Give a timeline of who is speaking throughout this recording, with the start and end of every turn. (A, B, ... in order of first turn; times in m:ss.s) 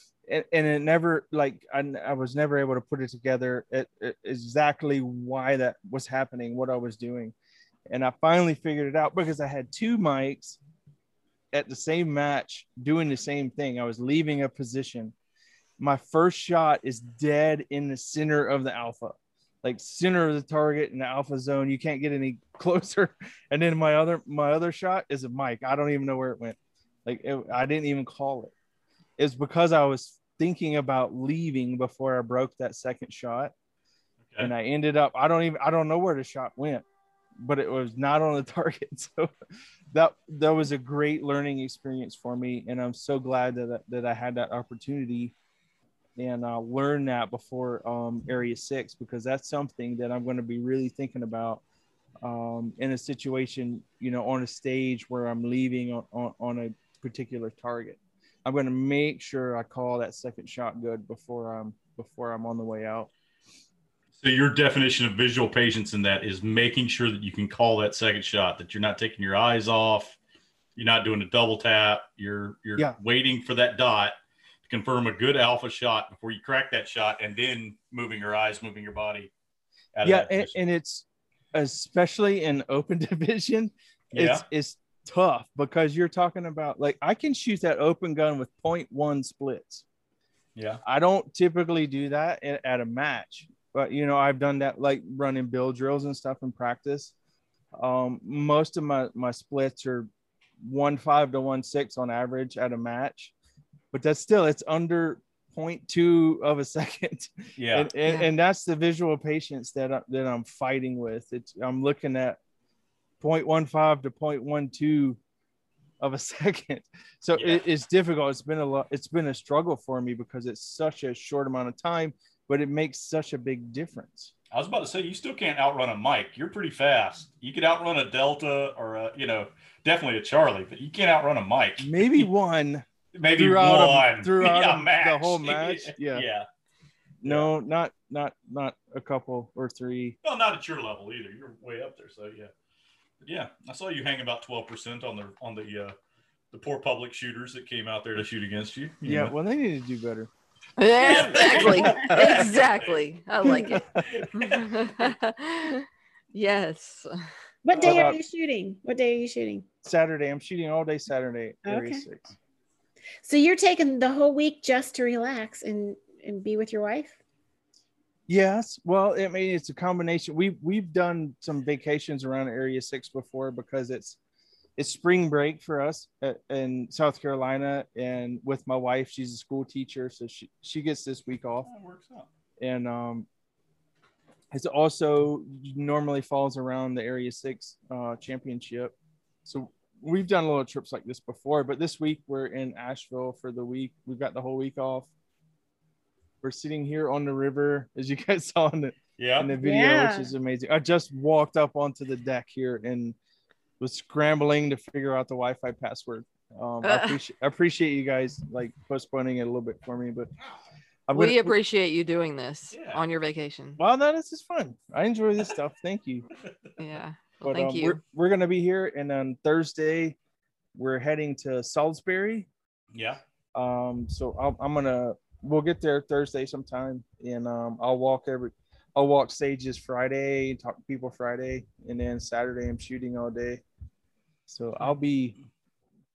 0:00.3-0:07.3 A
0:07.9-0:10.6 A
0:11.5-0:15.1 A
0:15.8-0:28.5 A
0:29.2-0:33.5 A
0:34.4-0:36.8 A
0:37.4-0:39.3 A
0:39.9-0:45.3 A
0:46.2-0:51.6 A
0:52.2-1:03.1 A
1:04.2-1:10.2 B
1:10.8-1:14.1 B
1:14.7-1:19.3 B
1:19.9-1:20.5 B
1:20.0-1:29.8 A
1:24.1-1:24.4 B
1:30.6-1:30.8 B
1:30.8-1:37.1 A
1:37.8-1:40.1 A
1:40.6-1:43.3 A
1:43.9-1:52.4 A
1:47.6-1:47.9 B
1:53.2-1:55.2 A
1:56.0-2:04.3 A
1:57.4-1:57.6 B
2:04.5-2:12.3 B
2:11.8-2:16.2 A
2:13.1-2:16.4 B
2:17.2-2:20.2 A
2:17.2-2:17.5 B
2:20.2-2:22.5 B
2:23.2-2:25.9 B
2:26.5-2:29.3 B
2:29.0-2:30.3 A
2:30.8-2:37.1 C
2:31.0-2:33.0 B
2:31.0-2:32.2 D
2:33.5-2:34.0 A
2:34.0-2:34.8 B
2:37.6-2:39.7 D
2:37.7-2:38.1 B
2:37.8-2:38.2 A
2:39.8-2:42.3 A
2:41.6-2:42.0 D
2:43.2-2:47.2 D
2:48.3-2:54.2 A
2:54.8-3:01.7 A
3:01.6-3:02.3 B
3:02.6-3:03.3 A
3:04.5-3:15.1 A
3:16.4-3:23.2 A
3:19.2-3:19.5 B
3:19.6-3:20.3 D
3:23.8-3:30.3 A
3:26.8-3:27.2 C
3:31.1-3:31.6 A
3:31.1-3:33.8 C
3:32.7-3:33.0 B
3:33.8-3:36.2 A
3:36.4-3:36.8 B
3:36.8-3:38.0 C
3:37.4-3:40.2 A
3:40.8-3:42.5 A
3:42.9-3:43.2 B
3:43.6-3:53.6 A
3:54.5-3:55.4 A